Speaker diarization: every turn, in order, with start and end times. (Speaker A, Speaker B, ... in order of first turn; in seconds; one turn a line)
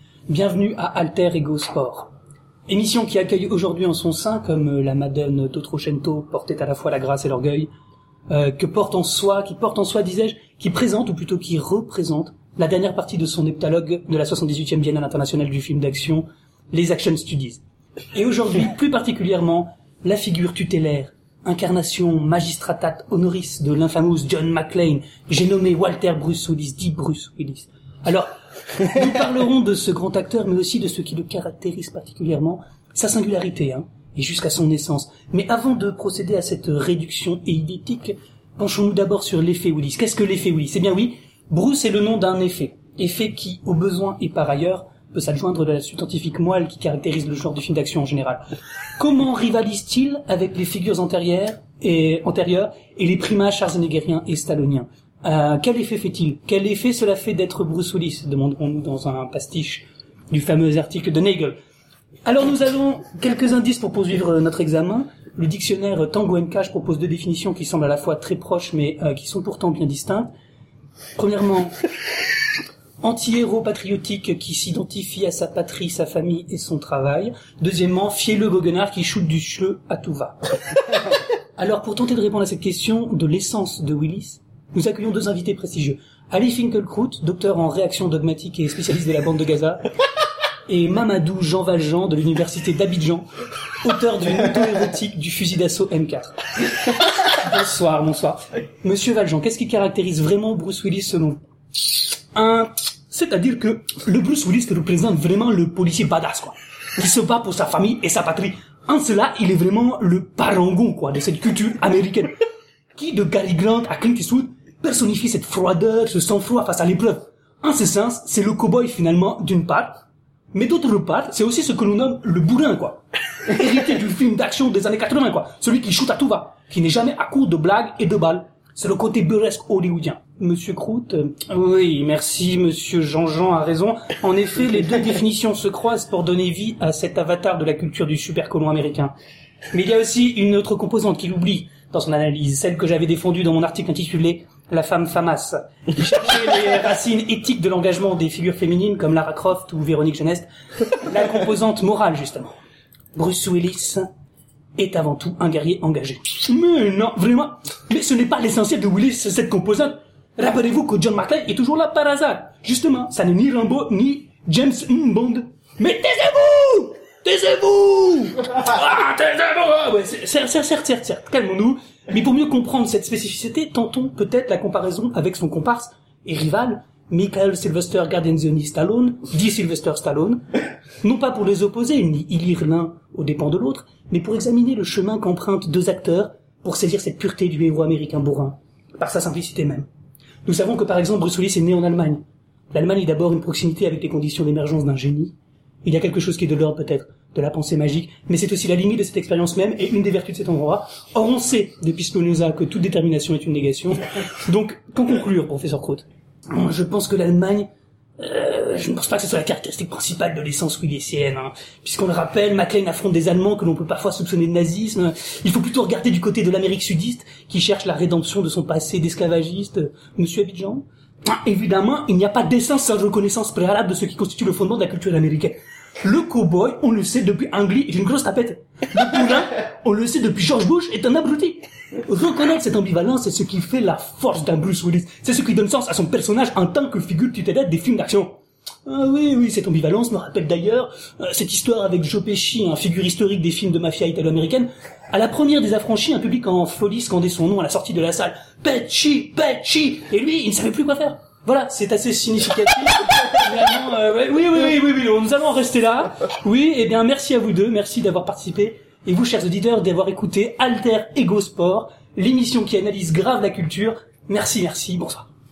Speaker A: 0.3-2.1
Speaker A: 2.7-7.7
Speaker A: 8.3-17.6
Speaker A: 18.1-48.4
Speaker A: 49.0-61.6
Speaker A: 62.2-70.3
Speaker A: 71.2-71.8
Speaker A: 73.0-80.4
Speaker A: 81.6-89.9
Speaker A: 90.7-93.3
Speaker A: 93.8-101.4
Speaker A: 102.3-112.4
Speaker A: 113.0-120.0
Speaker A: 120.5-139.1
Speaker A: 139.7-152.6
Speaker A: 153.2-154.1
Speaker A: 154.8-180.4
Speaker A: 181.0-189.9
Speaker A: 190.5-265.3